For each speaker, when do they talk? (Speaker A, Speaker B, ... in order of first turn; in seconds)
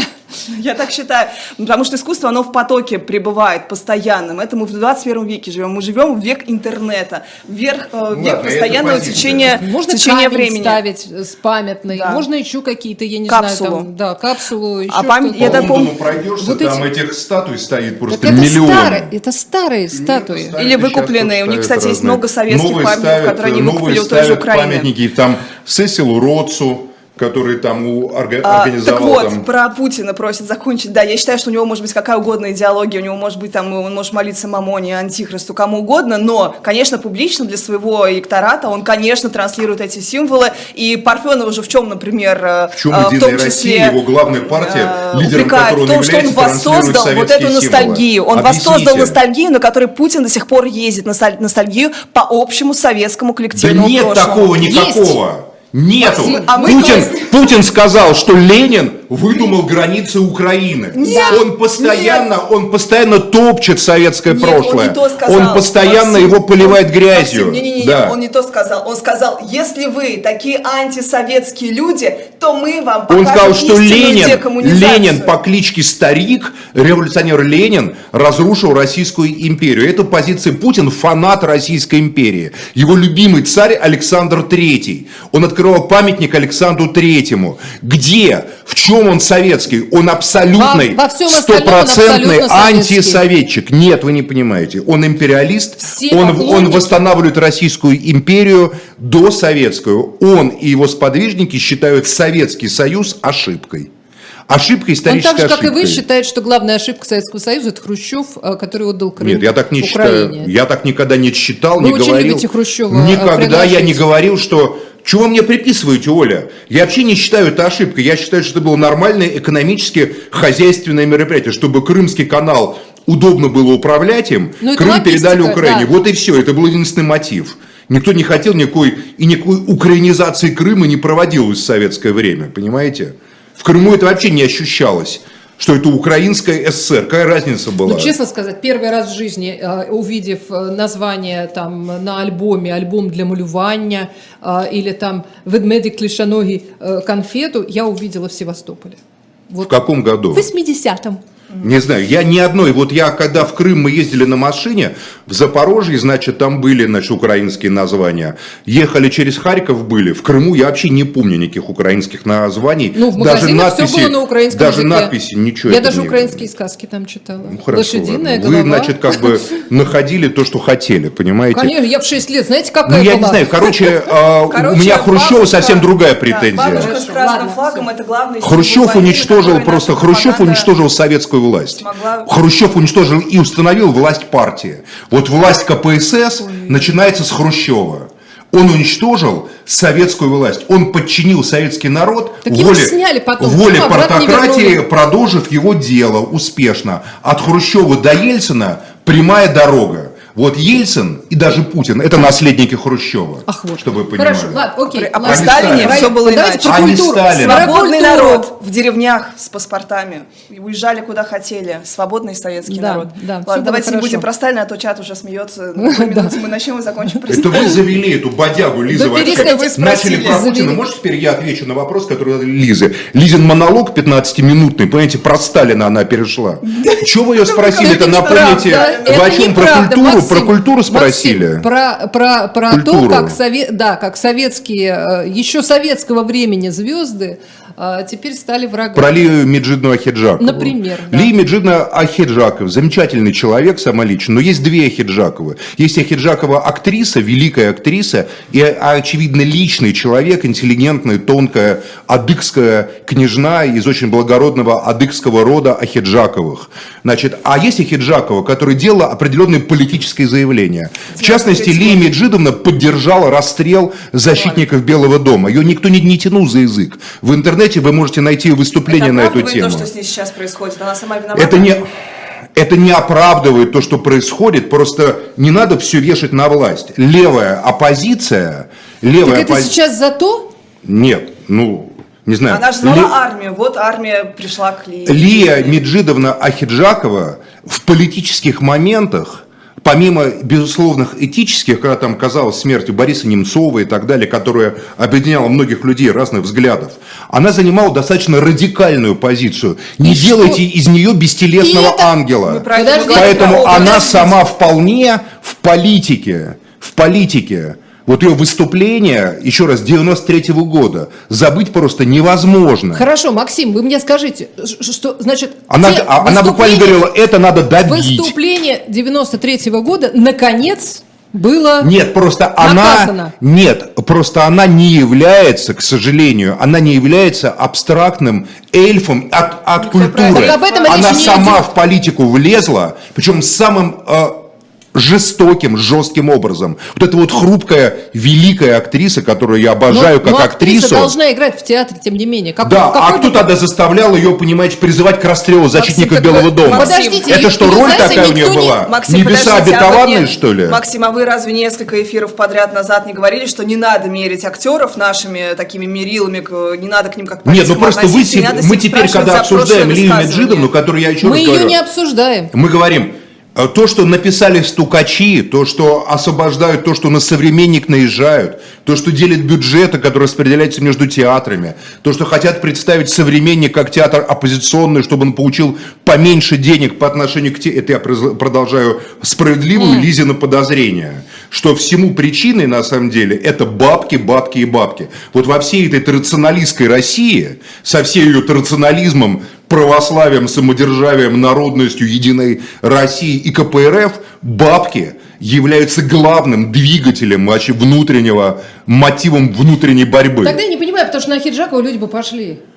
Speaker A: 0.5-10.8, 11.9-12.2, 13.3-13.9, 14.9-15.9, 20.6-24.9, 28.4-54.6, 56.0-57.3, 60.9-62.3, 64.3-75.3, 174.5-180.7, 181.8-182.3, 204.9-217.8, 219.0-220.4, 226.6-229.5, 261.1-262.1, 264.3-264.6, 268.9-271.7, 282.5-285.8, 302.4-304.3, 329.8-331.6, 345.8-360.7
Speaker B: 8.1-9.6, 15.4-19.1, 19.9-29.4, 42.7-49.2, 53.5-68.2, 73.1-103.9, 104.5-106.0, 109.2-138.1, 149.6-150.5, 151.6-166.5, 167.5-171.8, 172.8-176.9, 178.4-204.7, 205.2-207.8, 217.3-231.7, 232.7-233.4, 238.9-269.9, 271.3-271.9, 272.5-279.7, 280.8-283.1, 285.1-313.1, 315.7-318.3, 321.8-334.4, 334.9-341.1, 342.6-350.8, 357.4-361.8, 362.5-400.6
Speaker C: 9.6-16.8, 18.1-20.6, 54.6-55.2, 56.2-57.1, 61.0-61.4, 90.6-93.2, 95.8-97.0, 105.0-110.5, 111.8-114.0, 124.6-125.9, 137.8-149.7, 150.3-151.2, 162.9-165.1, 165.7-169.5, 171.5-173.5, 176.6-177.8, 186.6-186.8, 192.4-194.8, 203.5-208.5, 212.7-214.2, 215.8-216.3, 217.1-217.7, 218.9-220.8, 227.8-239.2, 240.4-241.3, 279.2-280.5, 300.0-300.6, 301.6-302.1, 302.7-304.3, 312.9-317.0, 317.8-321.9, 322.6-323.3, 330.3-331.6, 339.9-343.5, 346.6-348.7, 361.2-362.5, 379.8-380.1, 400.4-402.6